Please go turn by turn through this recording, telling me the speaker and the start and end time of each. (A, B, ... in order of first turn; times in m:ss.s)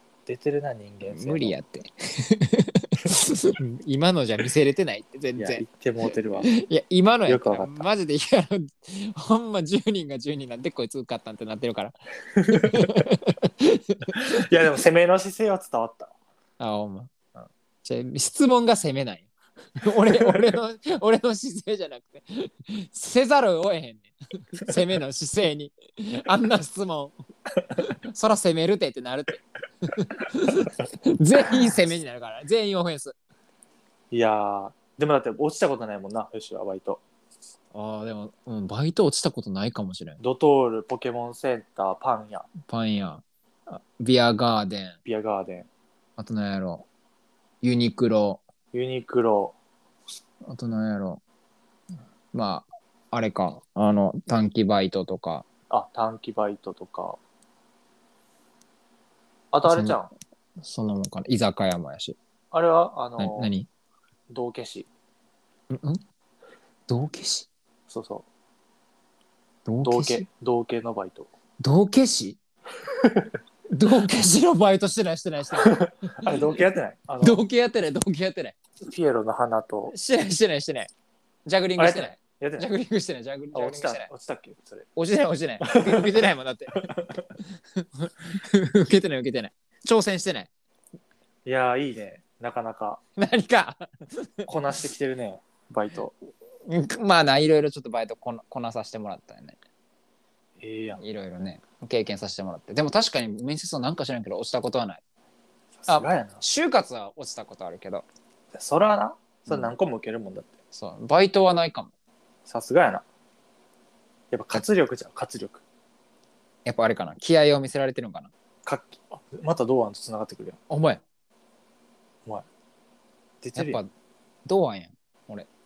0:00.2-0:01.5 A
0:01.1-0:14.4 B
0:05.4-0:06.5 A
0:07.3-0:07.9 A
0:12.5-0:13.0 A
0:14.3-0:16.1 A
0:16.6-0:17.1 B
0:17.8-0:27.1 B
0:20.1-0:20.4 A
0:27.8-0:33.1 B
0:34.1-0:37.0 A
0:37.7-0:40.2 B
0:40.2-0:42.5 A
0:42.7-0:45.0 B
0:45.0-0:45.7 A
0:46.2-0:46.9 B
0:47.6-0:48.4 B
0:48.7-0:49.5 A
0:50.5-0:51.2 B
0:52.3-0:55.5 B
0:55.7-0:57.2 A
0:59.5-1:00.1 A
0:59.6-1:00.0 B
1:00.6-1:02.2 B
1:02.5-1:03.5 A
1:03.2-1:03.7 B
1:04.3-1:04.9 A
1:05.7-1:06.0 B
1:06.9-1:07.5 B
1:07.9-1:08.2 A
1:09.6-1:10.2 B
1:09.8-1:11.3 A
1:11.6-1:12.4 B
1:13.7-1:16.3 B
1:15.6-1:17.4 A
1:17.2-1:18.5 B
1:18.8-1:19.9 A
1:19.9-1:20.9 B
1:21.4-1:24.1 B
1:21.8-1:22.7 A
1:23.5-1:24.9 A
1:25.0-1:26.9 B
1:25.6-1:26.2 A
1:26.8-1:27.2 A
1:27.8-1:30.5 B
1:31.4-1:33.0 A
1:33.2-1:34.5 B
1:34.5-1:36.1 A
1:36.6-1:39.6 B
1:40.6-1:41.0 A
1:41.0-1:45.0 B
1:45.8-1:46.4 A
1:45.9-1:48.0 B
1:48.5-1:50.5 A
1:50.7-1:51.9 B
1:52.5-1:53.0 A
1:54.3-1:55.6 A
1:56.6-1:58.3 B
1:58.6-2:00.6 A
2:00.7-2:01.0 B
2:03.4-2:03.8 A
2:03.5-2:03.9 B
2:04.4-2:05.5 B